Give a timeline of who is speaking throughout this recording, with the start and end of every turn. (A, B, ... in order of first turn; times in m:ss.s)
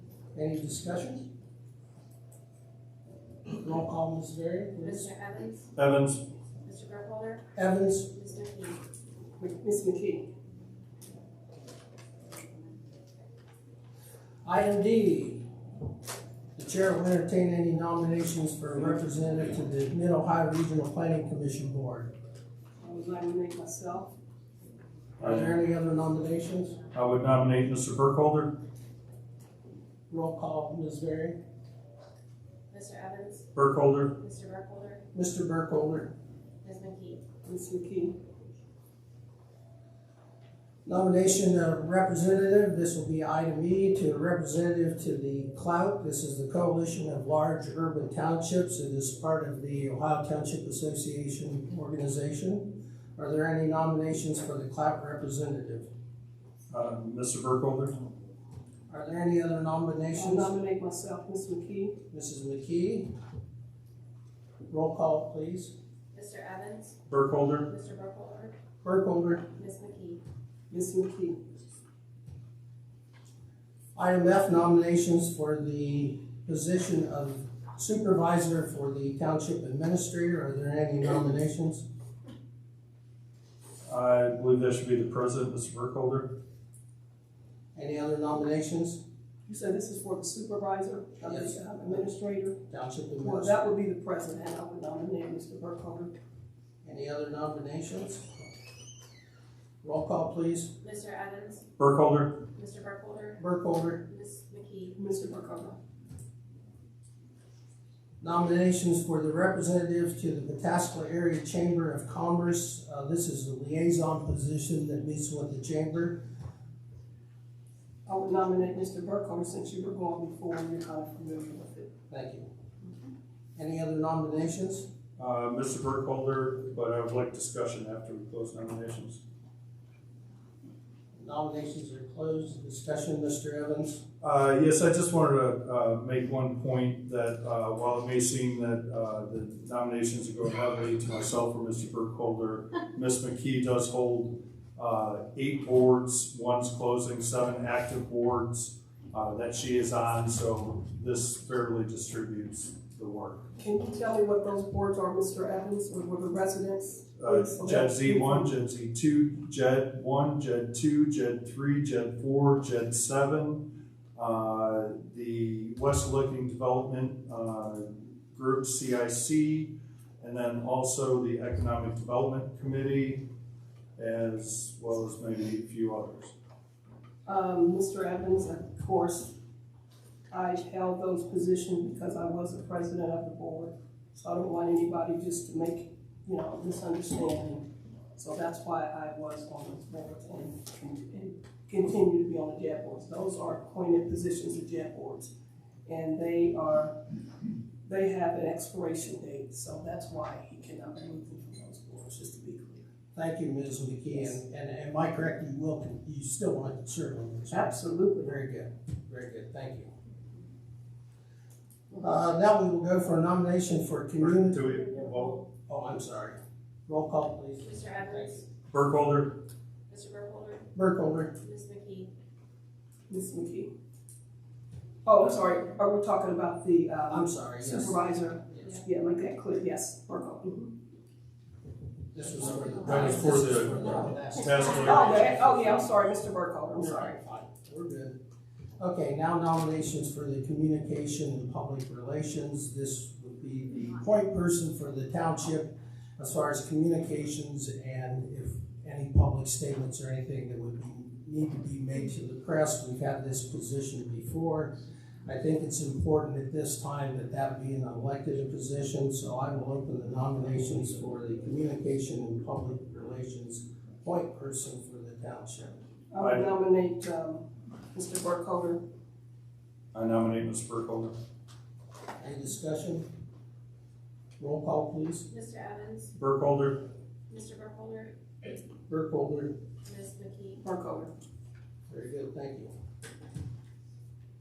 0:00.3-0:01.2 A
0:03.5-0:05.1 A
0:04.8-0:05.7 B
0:05.8-0:06.2 C
0:06.6-0:07.4 B
0:07.6-0:08.1 A
0:08.1-0:08.8 B
0:09.4-0:10.3 D
0:14.4-0:15.4 A
0:16.6-0:22.1 A
0:22.8-0:24.1 D
0:25.2-0:26.8 A
0:25.2-0:25.6 C
0:26.9-0:28.6 C
0:30.1-0:31.4 A
0:32.7-0:33.5 B
0:33.5-0:34.1 C
0:34.2-0:35.0 B
0:35.1-0:36.1 A
0:36.6-0:37.2 B
0:37.4-0:38.1 D
0:40.8-0:55.9 A
0:56.7-0:58.0 C
0:58.9-1:00.5 A
1:00.1-1:02.0 D
1:02.1-1:03.1 A
1:04.7-1:05.7 A
1:06.1-1:07.0 B
1:07.1-1:07.7 C
1:07.6-1:08.5 B
1:08.8-1:09.4 A
1:09.5-1:10.2 B
1:10.7-1:11.4 D
1:13.9-1:21.8 A
1:23.8-1:26.3 C
1:27.7-1:29.0 A
1:29.5-1:32.6 D
1:31.2-1:31.6 A
1:32.7-1:33.6 A
1:33.2-1:36.1 D
1:36.8-1:38.5 A
1:39.8-1:40.7 A
1:40.8-1:41.6 B
1:41.8-1:42.4 C
1:42.5-1:43.4 B
1:43.4-1:44.0 A
1:44.0-1:45.0 B
1:45.0-1:45.8 D
1:48.2-1:56.2 A
1:58.0-2:01.9 D
2:02.1-2:02.5 A
2:03.6-2:04.9 A
2:05.2-2:09.2 C
2:11.2-2:14.0 A
2:14.2-2:33.4 C
2:33.6-2:38.5 D
2:37.2-2:53.2 C
2:54.0-2:56.3 C
2:57.2-2:59.3 D
3:00.3-3:15.3 D
3:15.8-3:17.0 D
3:17.8-3:22.8 D
3:23.1-3:29.9 A
3:27.5-3:28.3 D
3:32.0-3:34.6 A
3:34.2-3:35.4 C
3:35.7-3:38.3 A
3:37.6-3:38.4 B
3:38.7-3:39.4 C
3:39.9-3:40.7 B
3:40.7-3:41.3 A
3:41.3-3:42.1 B
3:43.1-3:43.7 D
3:45.0-3:50.7 D
3:47.1-3:48.0 A
3:52.1-3:55.9 A
3:52.4-3:53.8 B
3:52.8-3:55.4 C
3:54.6-3:54.9 B
3:54.7-3:57.1 D
3:56.8-3:58.2 A
3:58.8-4:25.8 A
4:26.1-4:28.8 D
4:29.9-4:31.1 C
4:32.2-4:33.0 A
4:34.4-4:35.3 A
4:35.3-4:36.1 B
4:36.2-4:36.8 C
4:37.3-4:38.1 B
4:38.9-4:39.6 A
4:39.8-4:40.6 B
4:40.6-4:41.1 D
4:41.9-4:42.7 A